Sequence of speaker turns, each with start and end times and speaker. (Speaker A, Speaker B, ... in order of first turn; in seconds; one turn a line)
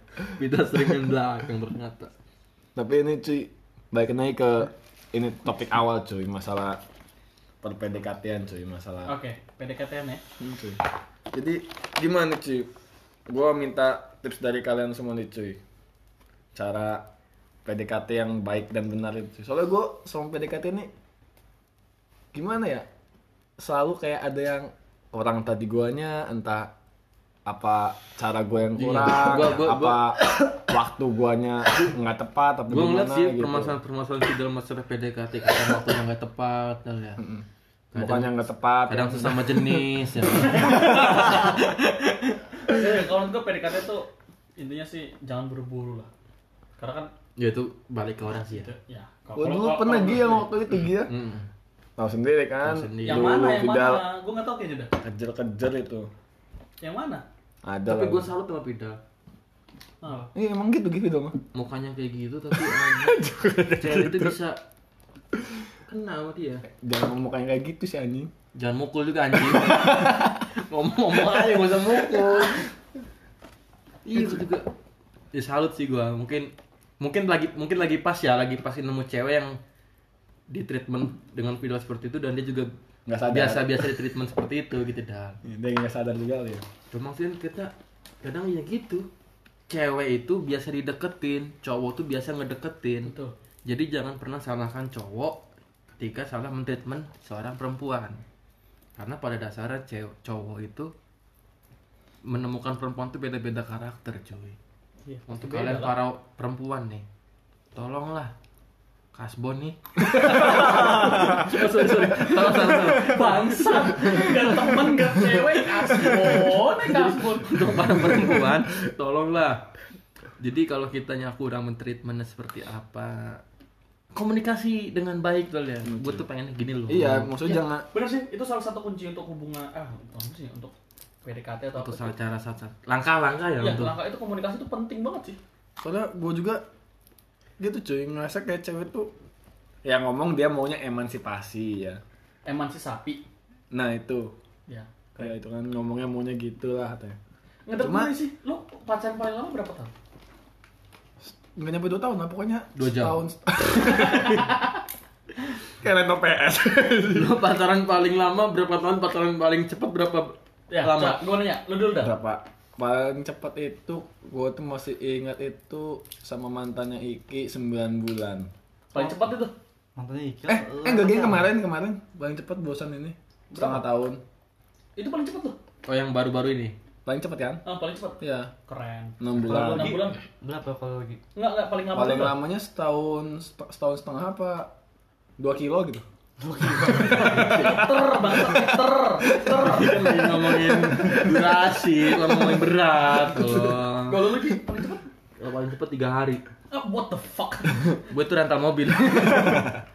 Speaker A: 0.2-2.1
Speaker B: 2.8-6.8
Speaker B: 7.6-9.2
Speaker C: 9.1-10.2
Speaker B: 10.4-10.8
Speaker B: 11.3-12.7
Speaker B: 13.3-15.6
Speaker B: 16.6-17.1
Speaker B: 17.6-20.9
Speaker B: 22.3-22.9
Speaker B: 23.6-26.7
Speaker B: 27.5-33.8
Speaker A: 28.8-30.1
Speaker A: 32.7-37.2
Speaker B: 37.2-39.9
Speaker A: 37.9-38.4
Speaker A: 38.9-42.4
Speaker B: 40.4-41.4
Speaker C: 40.9-41.2
Speaker C: 42.7-46.1
Speaker C: 46.8-47.1
Speaker A: 47.4-48.7
Speaker C: 48.5-50.5
Speaker B: 49.4-51.1
Speaker A: 51.0-51.5
Speaker B: 52.0-54.0
Speaker A: 52.6-53.4
Speaker C: 53.0-54.9
Speaker B: 55.0-56.1
Speaker C: 56.8-57.2
Speaker B: 57.6-58.3
Speaker A: 57.9-59.0
Speaker C: 60.0-60.3
Speaker B: 60.4-61.4
Speaker A: 61.5-64.6
Speaker B: 62.6-64.4
Speaker A: 65.9-66.7
Speaker B: 66.7-68.3
Speaker A: 68.5-72.7
Speaker B: 69.3-70.4
Speaker B: 71.3-72.6
Speaker A: 74.0-74.7
Speaker A: 75.3-79.6
Speaker A: 80.5-82.7
Speaker B: 83.1-83.9
Speaker A: 83.3-85.4
Speaker B: 85.4-86.6
Speaker A: 86.9-87.7
Speaker A: 88.2-89.1
Speaker A: 89.7-93.1
Speaker C: 93.0-93.3
Speaker A: 93.7-95.4
Speaker A: 96.0-98.2
Speaker A: 99.0-100.9
Speaker A: 102.3-104.6
Speaker C: 105.1-106.0
Speaker A: 105.3-107.0
Speaker A: 107.8-108.3
Speaker A: 109.1-114.7
Speaker C: 110.1-117.9
Speaker A: 116.0-119.7
Speaker A: 120.4-123.4
Speaker A: 124.1-127.3
Speaker B: 125.8-126.2
Speaker B: 126.9-127.9
Speaker C: 127.5-132.1
Speaker A: 131.8-133.9
Speaker C: 133.6-135.4
Speaker B: 135.8-136.6
Speaker B: 137.6-139.1
Speaker B: 139.8-142.0
Speaker C: 142.5-143.2
Speaker B: 143.7-144.3
Speaker C: 144.7-145.3
Speaker B: 145.2-147.2
Speaker C: 147.7-149.9
Speaker B: 147.8-148.1
Speaker B: 151.2-154.6
Speaker A: 152.8-153.2
Speaker A: 154.0-154.5
Speaker B: 155.6-157.4
Speaker A: 157.1-161.2
Speaker C: 160.7-162.2
Speaker B: 162.0-168.5
Speaker C: 168.9-169.5
Speaker D: 170.0-171.5
Speaker B: 170.5-174.2
Speaker C: 173.5-173.8
Speaker C: 175.0-175.6
Speaker A: 175.9-176.8
Speaker B: 177.1-177.6
Speaker C: 177.7-180.2
Speaker B: 178.2-178.5
Speaker B: 179.2-180.0
Speaker D: 179.4-181.2
Speaker C: 181.3-182.4
Speaker B: 181.9-184.7
Speaker B: 185.4-186.0
Speaker D: 186.4-187.6
Speaker B: 186.8-188.8
Speaker A: 186.8-187.9
Speaker C: 187.3-190.2
Speaker B: 189.4-191.5
Speaker A: 189.5-194.3
Speaker C: 194.1-195.1
Speaker A: 195.4-196.4
Speaker C: 196.7-198.0
Speaker A: 198.1-199.8